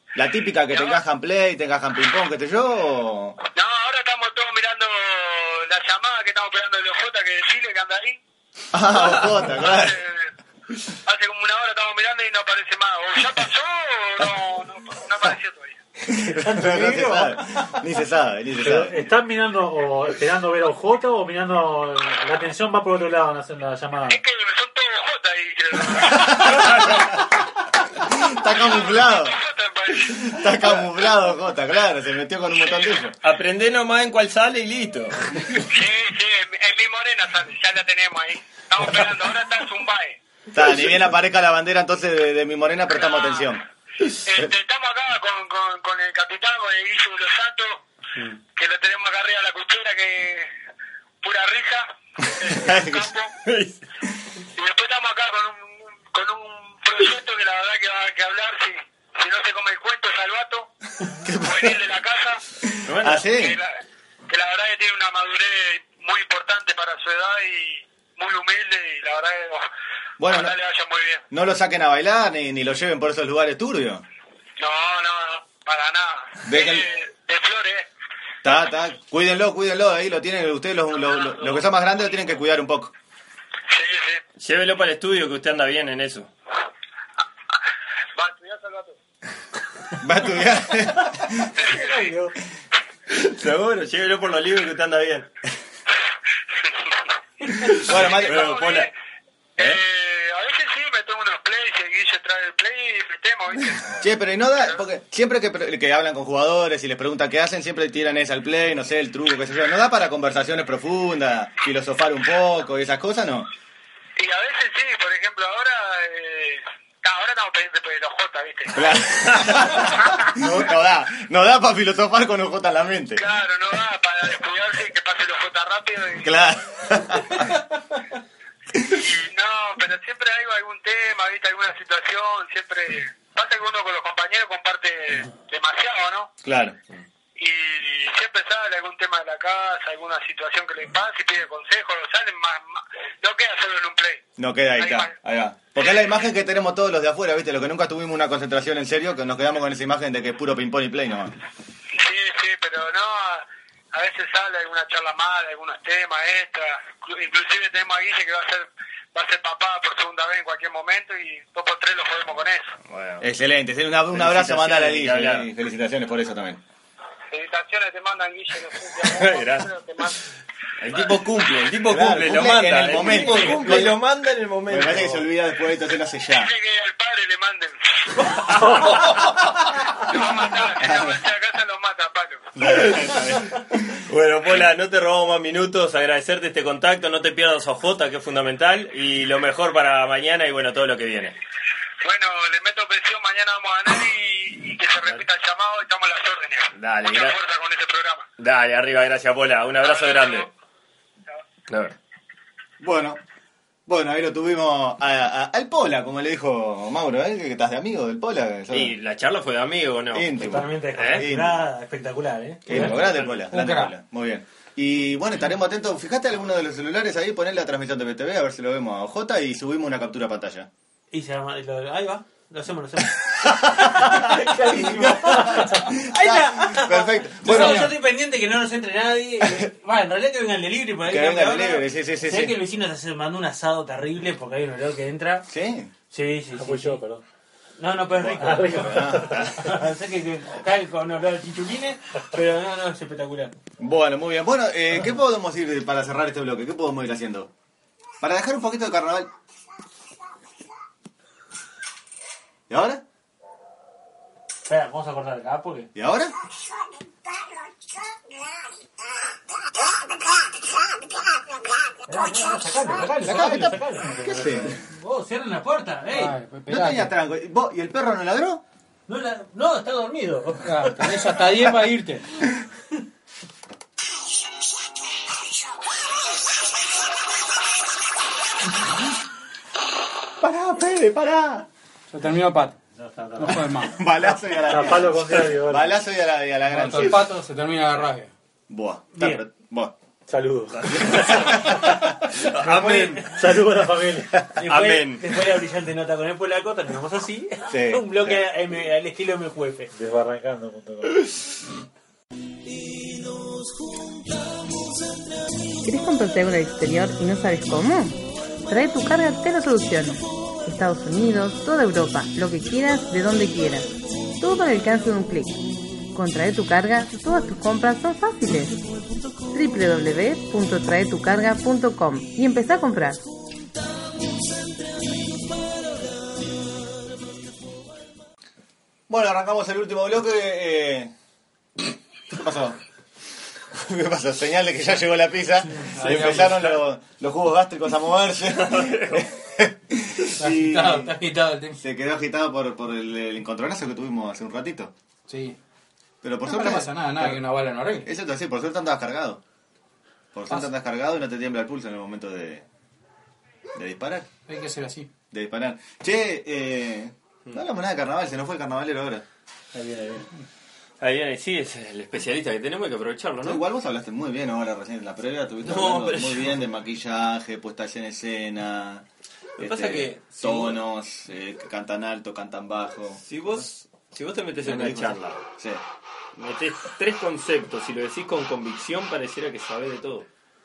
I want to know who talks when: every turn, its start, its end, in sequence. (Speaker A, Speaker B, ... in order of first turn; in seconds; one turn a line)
Speaker A: 0.1-3.4
Speaker B: 0.7-1.0
Speaker B: 3.5-8.2
Speaker A: 8.7-10.0
Speaker B: 9.5-10.3
Speaker B: 11.1-15.8
Speaker A: 16.1-19.1
Speaker C: 16.4-17.3
Speaker C: 18.6-24.2
Speaker B: 24.1-27.1
Speaker A: 26.3-26.9
Speaker A: 28.2-29.4
Speaker B: 28.4-30.9
Speaker A: 30.1-33.1
Speaker B: 32.6-33.0
Speaker D: 33.2-35.7
Speaker B: 35.7-40.2
Speaker A: 40.5-43.6
Speaker B: 43.0-43.5
Speaker B: 44.2-47.8
Speaker B: 48.5-50.5
Speaker B: 51.2-53.3
Speaker A: 52.5-53.1
Speaker D: 53.5-53.8
Speaker B: 54.5-60.7
Speaker A: 61.2-61.8
Speaker B: 61.3-62.4
Speaker A: 62.6-63.6
Speaker D: 62.9-63.3
Speaker B: 63.3-63.7
Speaker B: 64.3-69.7
Speaker A: 70.2-70.5
Speaker B: 70.2-71.3
Speaker A: 71.3-74.0
Speaker B: 74.6-77.9
Speaker A: 76.5-76.9
Speaker A: 78.4-82.9
Speaker B: 81.0-81.6
Speaker B: 83.7-84.2
Speaker D: 84.4-86.3
Speaker B: 88.2-89.0
Speaker A: 90.0-91.5
Speaker B: 91.5-92.3
Speaker D: 93.1-95.3
Speaker B: 97.5-98.9
Speaker D: 97.5-98.9
Speaker A: 97.8-98.5
Speaker B: 99.6-104.0
Speaker A: 104.0-113.5
Speaker B: 114.2-118.9
Speaker A: 118.7-123.2
Speaker B: 123.2-126.4
Speaker A: 126.2-127.6
Speaker B: 128.9-136.3
Speaker A: 136.4-136.8
Speaker B: 137.4-144.2
Speaker A: 144.4-151.4
Speaker B: 144.8-145.2
Speaker B: 145.8-146.2
Speaker B: 151.9-162.8
Speaker D: 162.9-163.3
Speaker A: 163.2-166.6
Speaker D: 164.1-165.5
Speaker B: 167.3-170.2
Speaker D: 169.0-170.2
Speaker D: 170.8-175.3
Speaker A: 171.8-174.0
Speaker A: 174.7-176.5
Speaker B: 176.3-179.0
Speaker D: 178.5-179.6
Speaker B: 179.9-182.5
Speaker A: 182.6-184.0
Speaker D: 182.7-183.4
Speaker D: 184.1-191.4
Speaker B: 192.0-198.3
Speaker D: 196.8-197.4
Speaker D: 198.4-200.5
Speaker B: 199.8-200.5
Speaker D: 201.7-202.0
Speaker A: 202.8-203.2
Speaker A: 203.9-208.9
Speaker D: 208.7-210.4
Speaker A: 210.1-211.6
Speaker E: 210.4-213.0
Speaker D: 210.9-211.3
Speaker A: 212.7-220.7
Speaker D: 212.9-213.4
Speaker F: 213.5-213.9
Speaker E: 221.1-235.5
Speaker A: 223.6-227.9
Speaker F: 227.5-227.9
Speaker A: 231.1-232.6
Speaker A: 235.5-235.9
Speaker E: 236.1-237.0
Speaker C: 236.6-237.2
Speaker E: 237.8-243.5
Speaker A: 238.1-239.8
Speaker C: 238.4-239.5
Speaker A: 243.8-247.5
Speaker A: 248.2-249.3
Speaker A: 252.7-253.0
Speaker E: 254.7-255.9
Speaker A: 255.9-256.4
Speaker E: 262.1-266.4
Speaker A: 263.2-264.8
Speaker C: 264.3-264.7
Speaker F: 266.1-267.1
Speaker A: 266.7-268.6
Speaker E: 269.1-271.7
Speaker F: 270.6-272.3
Speaker A: 280.4-281.7
Speaker F: 282.1-282.8
Speaker C: 283.0-283.9
Speaker F: 283.4-284.1
Speaker A: 283.9-287.4
Speaker C: 284.6-286.0
Speaker F: 286.7-288.3
Speaker A: 288.7-289.9
Speaker E: 289.2-289.4
Speaker C: 290.3-291.8
Speaker D: 290.7-293.4
Speaker A: 291.1-292.0
Speaker E: 292.6-293.4
Speaker C: 292.8-294.5
Speaker E: 294.6-299.9
Speaker D: 294.7-295.3
Speaker A: 297.7-298.5
Speaker C: 299.9-301.3
Speaker G: 305.8-315.6
Speaker G: 316.1-318.8
Speaker G: 319.5-323.2
Speaker A: 329.1-331.1
Speaker A: 332.3-332.8
Speaker A: 333.7-341.1
Speaker F: 335.8-336.8
Speaker D: 338.5-339.3
Speaker F: 340.4-341.8
Speaker A: 341.8-344.9
Speaker F: 345.3-345.6
Speaker A: 346.2-347.4
Speaker F: 346.4-348.1
Speaker A: 348.0-349.4
Speaker A: 350.3-352.7
Speaker A: 353.8-354.3
Speaker F: 354.5-355.1
Speaker A: 355.3-359.2
Speaker C: 359.7-360.3
Speaker D: 361.0-363.6
Speaker A: 363.4-369.1
Speaker D: 365.6-366.6
Speaker D: 369.6-370.8
Speaker A: 369.6-373.6
Speaker D: 373.2-375.4
Speaker A: 374.6-375.8
Speaker D: 376.4-380.3